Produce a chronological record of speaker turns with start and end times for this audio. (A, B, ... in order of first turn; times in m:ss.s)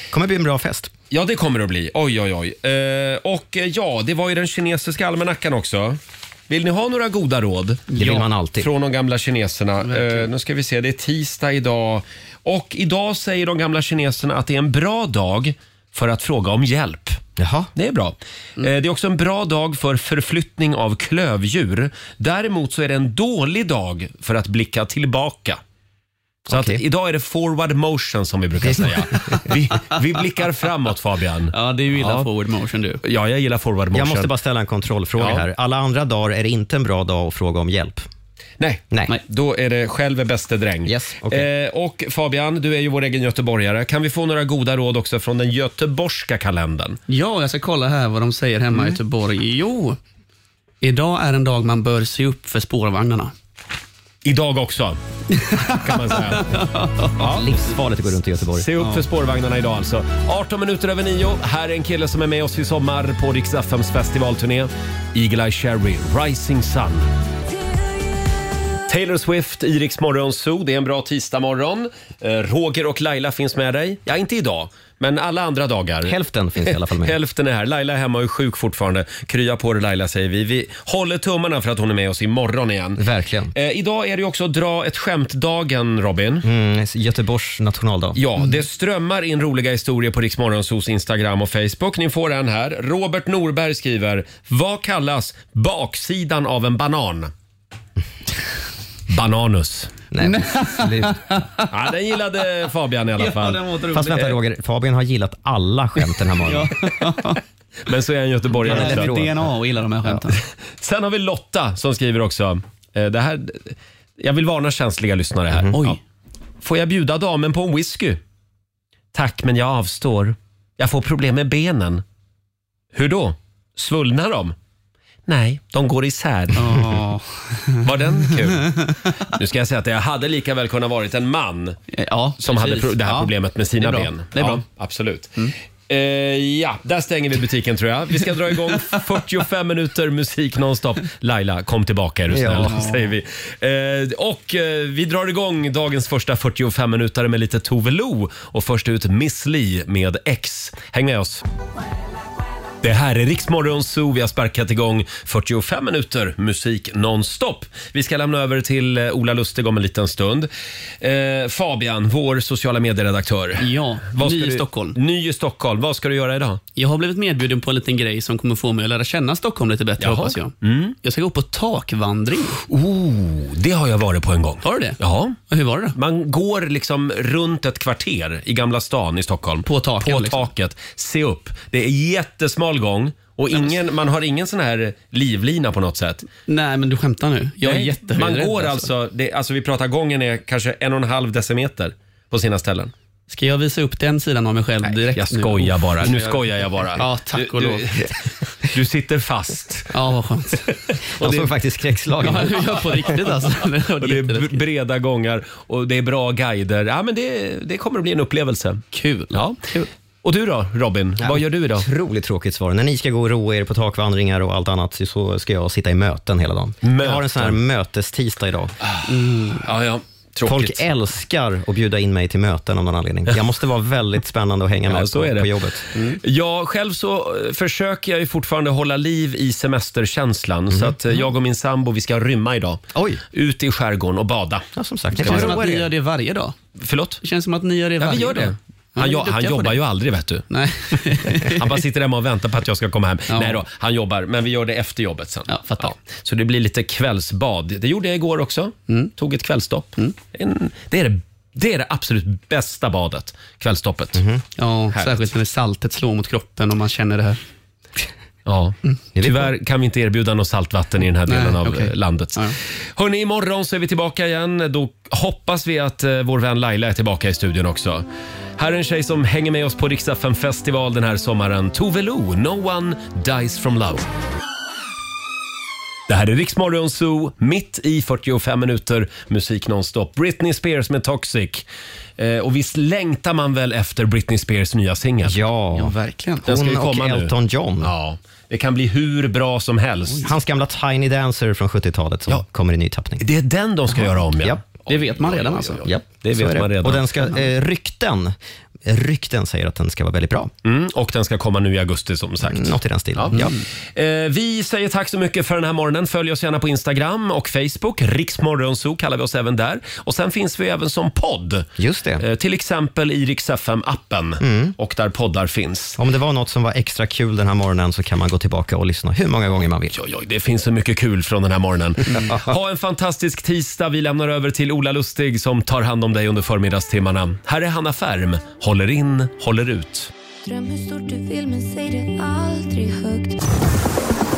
0:00.1-0:00.9 A
0:01.1-0:08.0 B
0:07.9-0:08.2 C
0:08.0-0:08.7 A
0:08.6-0:17.2 B
0:09.8-0:10.3 C
0:17.4-0:17.7 A
0:17.8-0:25.6 B
0:26.4-0:26.8 A
0:26.5-0:32.3 B
0:28.6-0:29.4 A
0:31.5-0:33.0 C
0:33.0-0:34.3 B
0:33.9-0:38.0 A
0:35.2-0:35.4 B
0:38.6-0:47.0 B
0:40.8-0:41.5 A
0:47.1-0:50.0 C
0:50.8-0:53.3 C
0:54.2-0:55.0 B
0:55.3-0:57.6 C
0:55.6-0:56.6 B
0:57.2-0:58.7 A
0:58.6-1:07.0 B
1:08.9-1:23.0 B
1:16.0-1:17.2 A
1:23.0-1:23.5 A
1:23.5-1:26.4 B
1:26.4-1:28.2 A
1:28.2-1:37.3 B
1:39.1-1:39.9 B
1:40.1-1:41.4 A
1:40.2-1:41.6 C
1:41.7-1:44.3 B
1:43.2-1:44.1 C
1:43.9-1:46.8 A
1:46.4-1:47.4 C
1:47.9-1:49.1 B
1:48.6-1:50.4 C
1:48.6-1:49.5 A
1:50.3-1:56.0 B
1:55.5-1:55.8 A
1:55.7-1:56.0 C
1:56.6-1:58.2 B
1:59.1-2:02.0 B
2:02.9-2:04.5 B
2:05.3-2:07.0 B
2:06.5-2:09.1 C
2:07.8-2:11.8 B
2:11.9-2:14.6 C
2:12.4-2:31.4 B
2:22.3-2:22.8 A
2:22.6-2:23.0 C
2:32.8-2:40.5 B
2:41.0-2:46.6 B
2:43.6-2:45.0 C
2:46.8-2:52.6 C
2:50.0-2:51.0 B
2:52.6-2:55.4 B
2:54.6-2:56.0 C
2:55.9-3:06.3 B
2:59.6-3:00.5 C
3:06.4-3:08.9 C
3:07.6-3:12.9 B
3:13.3-3:18.2 C
3:14.8-3:19.9 B
3:19.9-3:20.7 C
3:20.7-3:21.5 B
3:21.2-3:23.2 A
3:22.2-3:24.6 C
3:24.0-3:29.6 B
3:28.9-3:29.9 C
3:30.2-3:31.9 B
3:31.2-3:38.7 A
3:36.8-3:37.6 B
3:38.8-3:40.8 B
3:39.1-3:39.7 C
3:40.4-3:45.9 A
3:44.9-3:45.5 B
3:46.2-3:54.6 B
3:52.9-3:53.2 A
3:54.8-3:55.9 A
3:55.2-3:56.6 C
3:55.2-3:55.6 B
3:56.8-3:57.2 B
3:57.2-3:59.8 C
3:58.0-4:14.2 B
4:00.5-4:01.8 C
4:03.3-4:03.6 C
4:05.5-4:05.9 C
4:14.1-4:14.4 A
4:14.6-4:17.4 C
4:18.4-4:28.0 B
4:19.2-4:19.5 A
4:21.2-4:22.6 C
4:28.6-4:34.0 B
4:36.1-4:41.6 B
4:42.2-4:45.4 B
4:45.2-4:47.9 A
4:45.7-4:46.4 C
4:46.4-4:50.3 B
4:50.2-4:53.2 A
4:53.2-4:57.1 B
4:54.9-4:55.9 C
4:55.8-5:00.5 A
5:00.6-5:11.7 B
5:02.4-5:03.6 A
5:03.3-5:03.6 C
5:11.8-5:12.2 A
5:12.2-5:16.0 B
5:14.4-5:14.7 A
5:16.0-5:19.9 A
5:19.9-5:30.1 B
5:22.2-5:22.5 A
5:30.4-5:33.4 D